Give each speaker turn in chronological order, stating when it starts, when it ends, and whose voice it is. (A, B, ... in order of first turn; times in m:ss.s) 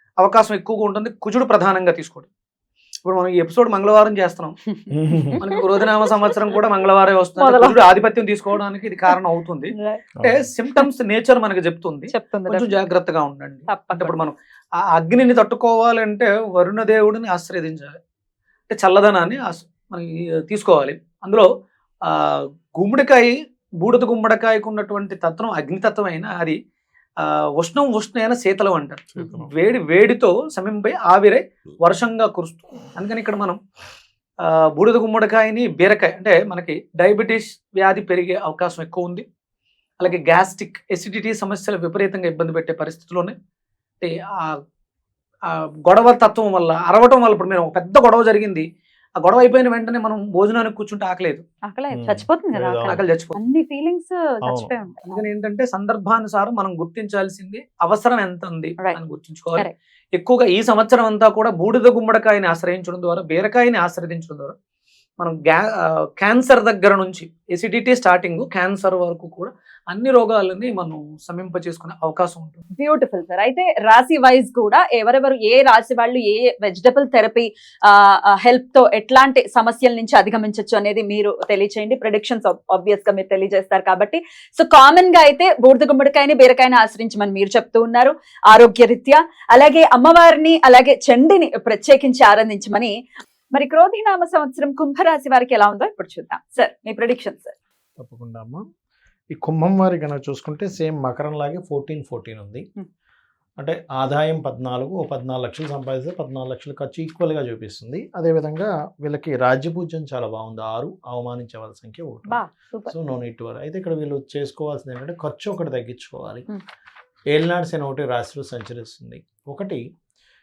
0:00.2-0:02.3 A
0:03.0-0:04.5 A
0:04.7-0:06.1 B
0:04.9-0:05.4 C
0:05.4-0:14.3 A
0:07.4-0:07.8 B
0:09.8-0:10.0 B
0:10.2-0:10.5 C
0:12.1-0:12.7 B
0:13.7-0:14.2 B
0:14.9-0:18.0 A
0:18.7-0:21.5 A
0:22.1-0:26.6 A
0:27.2-0:33.6 A
0:29.2-0:29.5 C
0:34.5-0:39.2 A
0:40.0-0:43.3 A
0:44.0-0:44.5 A
0:45.5-0:48.6 A
0:49.2-0:51.4 A
0:51.7-0:55.2 B
0:51.9-0:53.0 C
0:52.9-0:53.4 A
0:54.4-0:54.8 C
0:55.1-1:04.5 A
1:05.2-1:12.6 A
1:12.7-1:32.9 B
1:33.5-1:37.5 B
1:38.0-1:38.6 C
1:39.3-1:42.6 C
1:43.6-1:56.5 C
1:52.3-1:52.9 B
1:57.3-1:59.8 C